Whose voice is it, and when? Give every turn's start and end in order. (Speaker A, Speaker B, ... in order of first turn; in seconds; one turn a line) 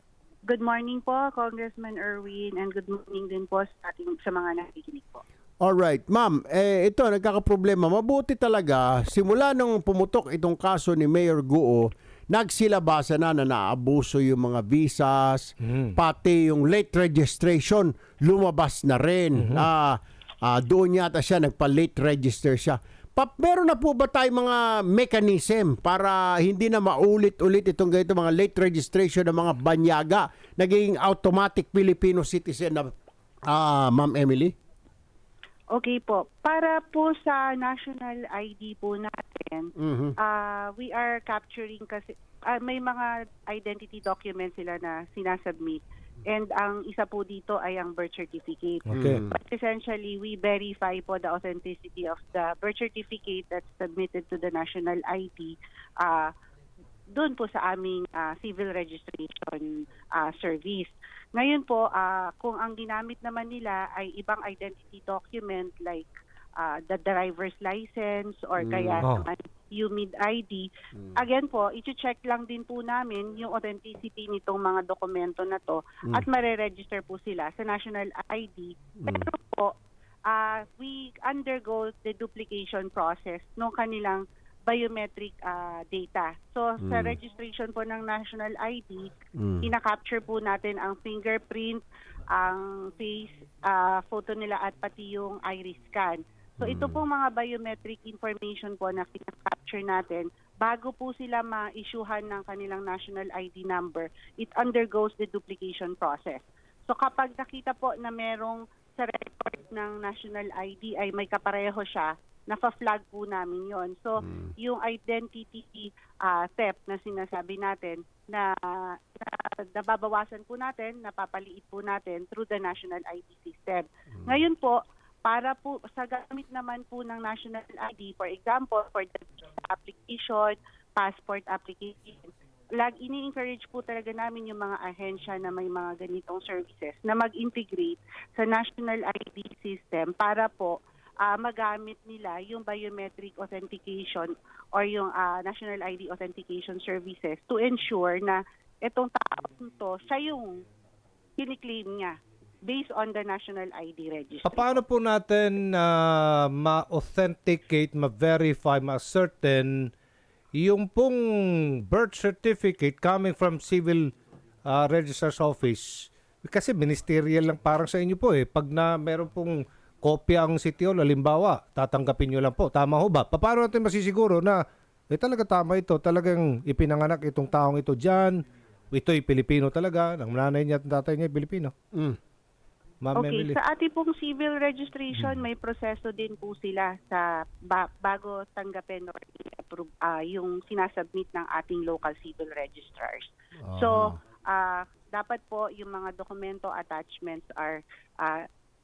Speaker A: 0.5-5.2
Speaker B: 5.6-32.9
Speaker C: 15.6-15.9
Speaker C: 19.4-19.6
Speaker B: 33.5-34.5
Speaker A: 35.7-56.3
Speaker B: 39.8-40.1
Speaker C: 48.9-49.2
Speaker B: 48.9-49.3
Speaker A: 57.1-79.7
Speaker B: 68.6-69.0
Speaker C: 69.0-69.2
Speaker B: 70.9-71.2
Speaker B: 79.0-79.3
Speaker A: 80.3-89.1
Speaker B: 86.8-87.2
Speaker B: 89.4-89.7
Speaker A: 89.6-124.7
Speaker B: 96.6-97.0
Speaker B: 114.2-114.5
Speaker B: 124.2-124.5
Speaker A: 125.2-150.6
Speaker A: 151.4-152.1
Speaker A: 152.7-154.8
Speaker C: 154.4-159.9
Speaker C: 160.6-164.1
Speaker C: 164.7-181.7
Speaker B: 181.9-182.2
Speaker C: 183.0-183.6
Speaker A: 183.2-198.4
Speaker B: 185.2-185.4
Speaker B: 193.7-194.2